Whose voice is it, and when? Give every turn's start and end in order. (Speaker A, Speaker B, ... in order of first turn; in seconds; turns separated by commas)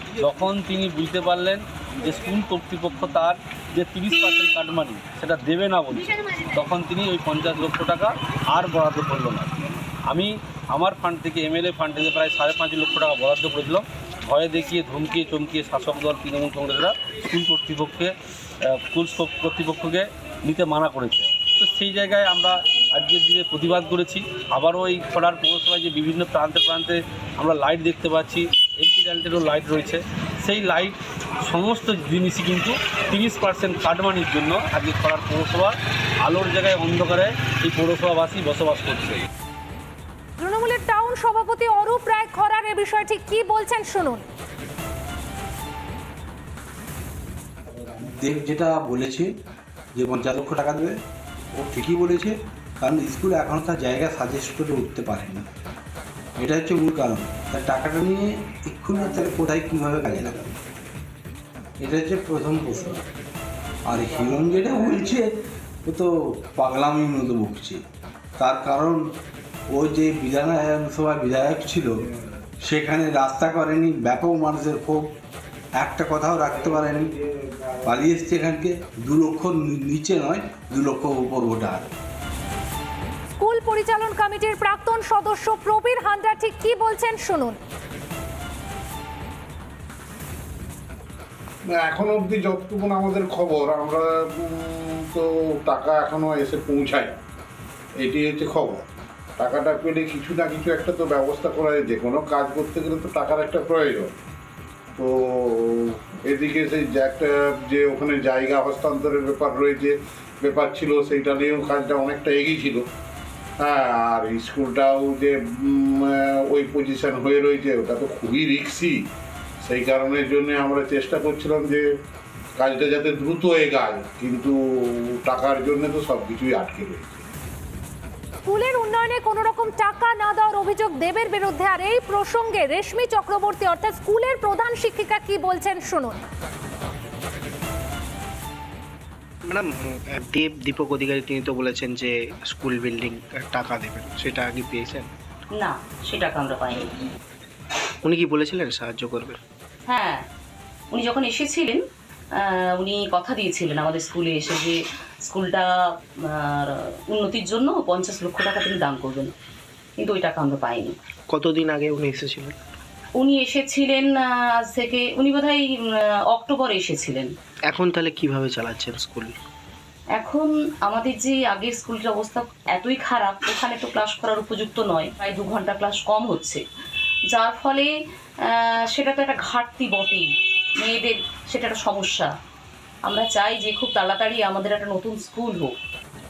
Speaker A: 0.2-9.5, Speaker A: 10.1-39.2, Speaker B: 40.4-44.2, Speaker C: 48.0-49.3, Speaker C: 50.0-51.0, Speaker C: 51.5-55.5, Speaker C: 56.4-60.6, Speaker C: 61.8-63.1, Speaker C: 63.9-67.8, Speaker C: 68.4-69.0, Speaker C: 69.7-72.0, Speaker C: 72.6-75.1, Speaker C: 75.8-77.2, Speaker C: 77.8-82.0, Speaker B: 83.3-87.6, Speaker D: 91.7-97.2, Speaker D: 98.0-104.2, Speaker D: 105.0-112.8, Speaker D: 113.6-119.0, Speaker D: 119.6-121.8, Speaker D: 122.6-127.2, Speaker B: 128.4-136.2, Speaker E: 140.2-145.1, Speaker F: 145.5-146.9, Speaker E: 148.1-149.4, Speaker F: 149.9-150.2, Speaker F: 150.9-151.8, Speaker F: 152.3-155.7, Speaker F: 156.2-159.3, Speaker F: 160.0-160.9, Speaker E: 161.3-162.5, Speaker F: 163.2-167.3, Speaker E: 167.7-169.3, Speaker F: 170.2-176.7, Speaker F: 177.3-177.9, Speaker F: 178.4-180.3, Speaker F: 180.8-182.3, Speaker F: 183.1-185.7